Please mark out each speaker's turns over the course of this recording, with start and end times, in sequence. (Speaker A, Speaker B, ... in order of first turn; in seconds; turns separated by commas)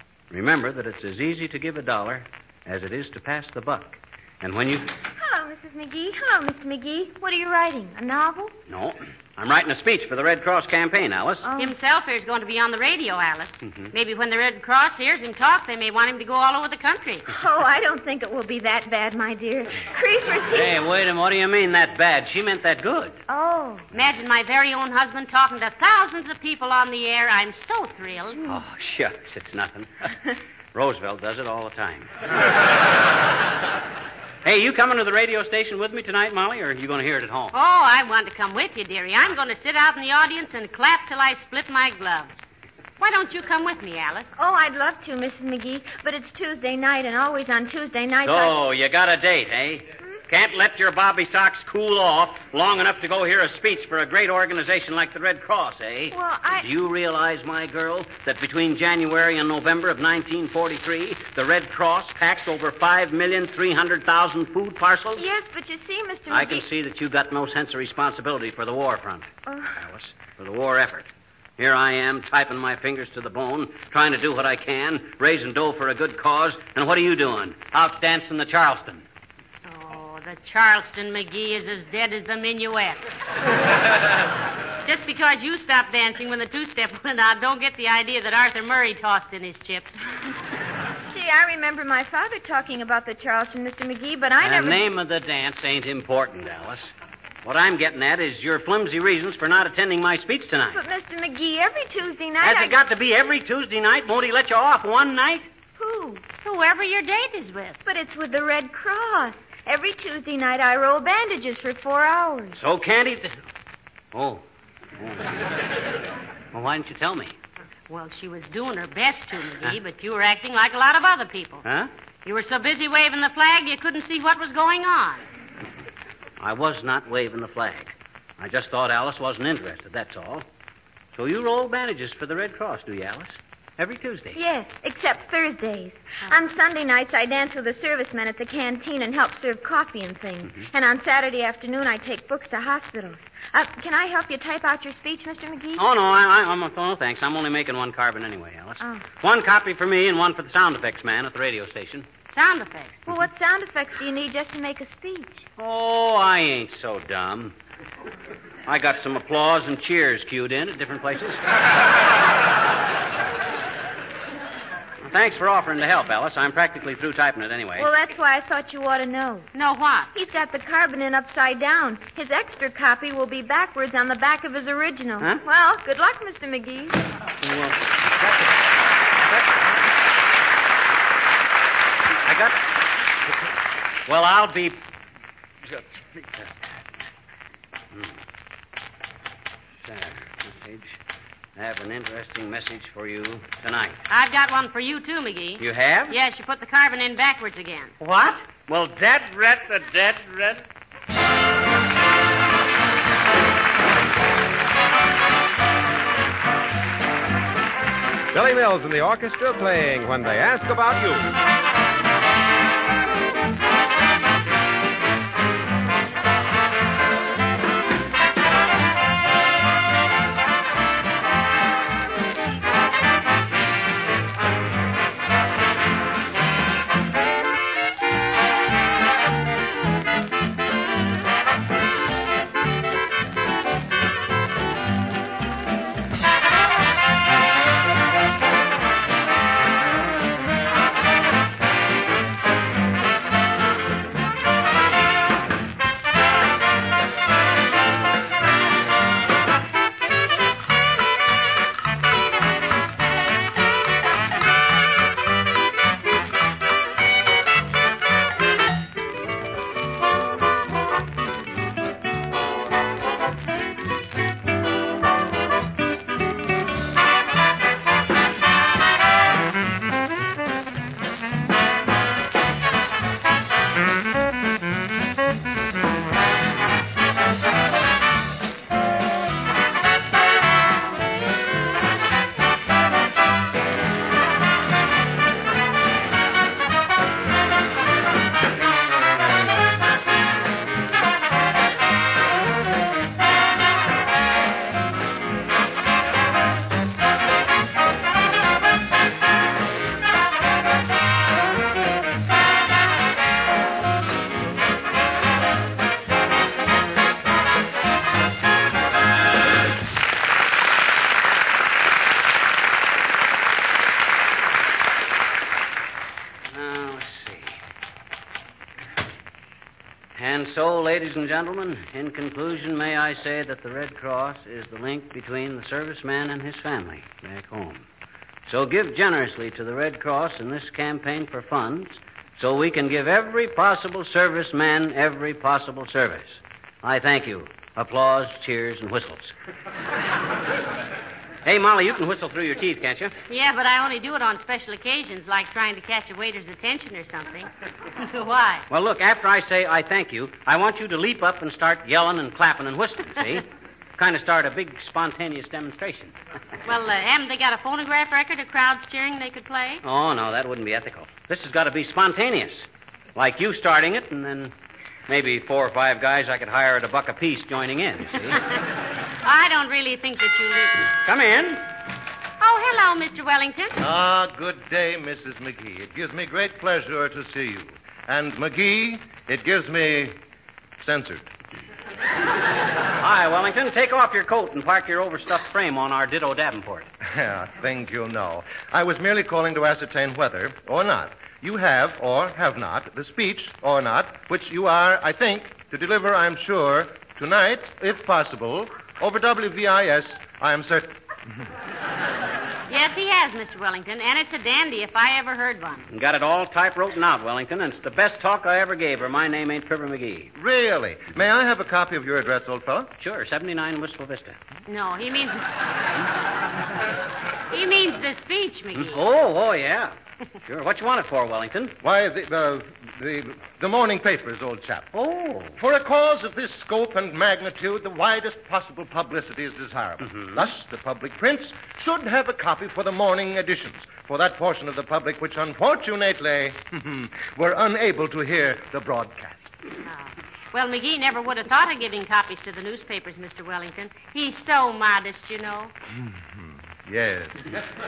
Speaker A: 0.3-4.9, Speaker B: 5.2-8.5, Speaker A: 8.7-11.5, Speaker B: 11.5-11.7, Speaker C: 11.6-17.3, Speaker A: 13.6-13.9, Speaker B: 17.3-20.8, Speaker A: 20.5-23.2, Speaker B: 23.3-23.9, Speaker C: 23.9-28.4, Speaker A: 28.4-29.9, Speaker A: 30.7-32.1, Speaker A: 34.4-37.5, Speaker C: 37.5-42.4, Speaker C: 43.0-44.3, Speaker B: 44.4-48.5, Speaker A: 48.2-65.2, Speaker B: 56.1-56.6, Speaker B: 65.2-66.6, Speaker A: 66.3-79.0, Speaker B: 69.5-69.7, Speaker C: 79.6-83.0, Speaker C: 84.8-90.0, Speaker B: 91.1-94.9, Speaker A: 94.4-96.9, Speaker A: 97.4-100.8, Speaker B: 100.7-102.8, Speaker A: 102.4-105.5, Speaker B: 105.8-106.2, Speaker C: 106.4-107.8, Speaker B: 107.8-112.6, Speaker A: 112.5-113.4, Speaker A: 114.1-114.4, Speaker A: 115.0-115.3, Speaker A: 116.5-117.3, Speaker C: 117.9-121.7, Speaker A: 121.6-121.9, Speaker C: 122.2-125.2, Speaker A: 126.4-130.5, Speaker A: 131.1-134.4, Speaker B: 134.3-145.8, Speaker A: 145.8-152.1, Speaker B: 148.8-149.1, Speaker C: 152.3-153.1, Speaker B: 153.1-155.4, Speaker A: 155.6-157.6, Speaker A: 158.7-161.4, Speaker A: 165.0-167.9, Speaker B: 167.8-169.5, Speaker C: 169.5-170.1, Speaker B: 170.1-177.0, Speaker A: 177.4-178.5, Speaker A: 179.3-179.6, Speaker A: 182.2-182.7, Speaker A: 184.1-184.8, Speaker A: 185.7-186.5, Speaker A: 189.8-191.0, Speaker A: 191.6-194.0, Speaker C: 194.1-197.9, Speaker A: 195.6-196.2, Speaker A: 198.0-200.6, Speaker D: 208.3-211.3, Speaker A: 316.5-317.5, Speaker A: 320.1-327.9, Speaker A: 328.4-339.3, Speaker A: 341.4-343.1, Speaker C: 343.3-348.7, Speaker A: 348.7-353.4, Speaker A: 354.0-356.1, Speaker C: 356.6-359.8, Speaker A: 359.8-364.5, Speaker A: 365.1-368.4, Speaker C: 369.2-370.9, Speaker A: 371.0-371.6, Speaker C: 372.4-373.8, Speaker E: 373.8-380.1, Speaker E: 380.8-381.3, Speaker A: 383.0-386.9, Speaker E: 387.0-400.9, Speaker C: 402.7-405.9, Speaker A: 405.9-410.3, Speaker E: 410.3-412.9, Speaker A: 413.0-414.4, Speaker C: 414.6-415.5, Speaker C: 417.5-419.0, Speaker A: 418.7-421.8, Speaker E: 421.8-424.9, Speaker A: 424.9-425.6, Speaker E: 425.6-439.5, Speaker C: 439.8-445.7, Speaker E: 445.9-447.6